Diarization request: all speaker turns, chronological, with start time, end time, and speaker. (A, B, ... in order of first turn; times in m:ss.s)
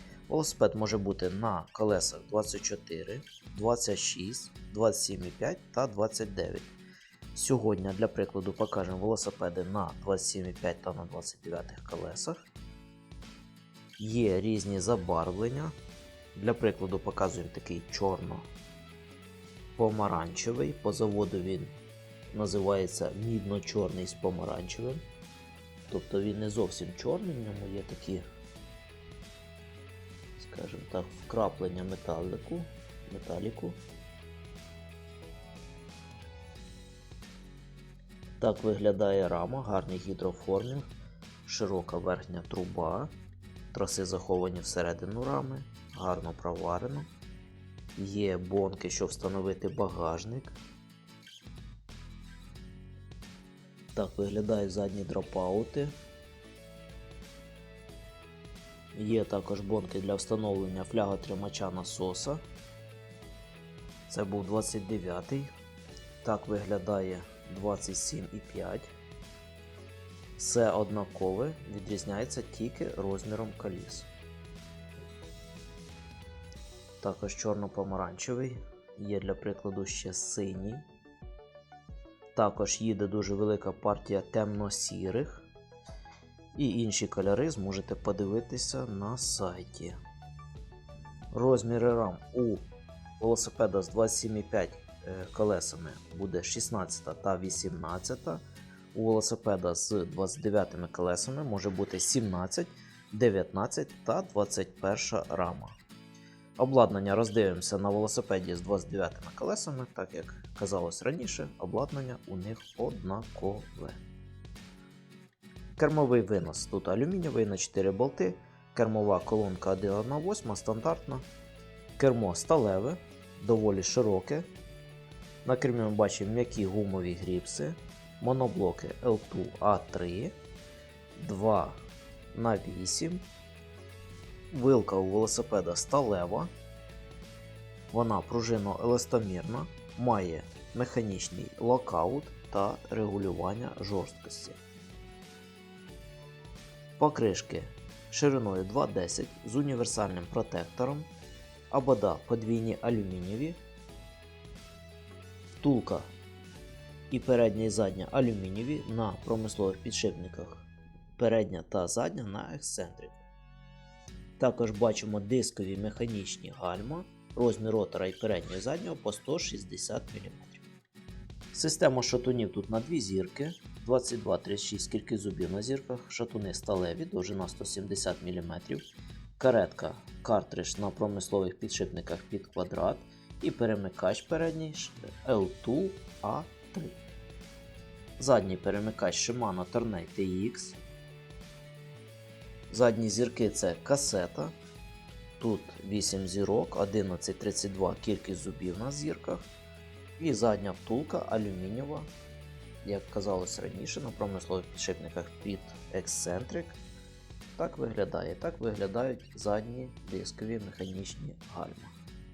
0:00.3-0:06.7 A
0:07.3-0:12.4 A
0:14.0-0:15.7 A
0:16.3-0:18.5 A
0:19.8-0:21.7 A
0:22.3-0:25.0 A
0:25.9-0:28.2 A
0:30.4-0:33.8 A
0:38.4-0:40.8 A
0:41.4-0:43.1 A
0:43.7-0:47.0 A
0:48.0-0:50.6 A
0:53.9-0:55.9 A
0:58.9-1:02.4 A
1:04.1-1:05.5 A
1:06.2-1:08.9 A
1:10.4-1:14.1 A
1:17.0-1:20.8 A
1:22.3-1:25.5 A
1:26.5-1:30.0 A
1:31.3-1:32.6 A
1:33.2-1:38.4 A
1:38.9-1:45.8 A
1:46.6-1:54.0 A
1:55.8-2:01.2 A
2:02.0-2:04.4 A
2:05.4-2:10.3 A
2:11.2-2:11.8 A
2:12.3-2:13.2 A
2:14.5-2:16.5 A
2:17.9-2:24.6 A
2:27.0-2:31.1 A
2:31.7-2:33.6 A
2:35.6-2:36.1 A
2:37.1-2:40.7 A
2:41.2-2:43.2 A
2:44.4-2:50.6 A
2:51.5-2:58.8 A
2:59.4-3:07.0 A
3:08.2-3:10.8 A
3:12.7-3:14.5 A
3:15.4-3:19.5 A
3:20.2-3:22.1 A
3:22.8-3:26.8 A
3:27.6-3:31.9 A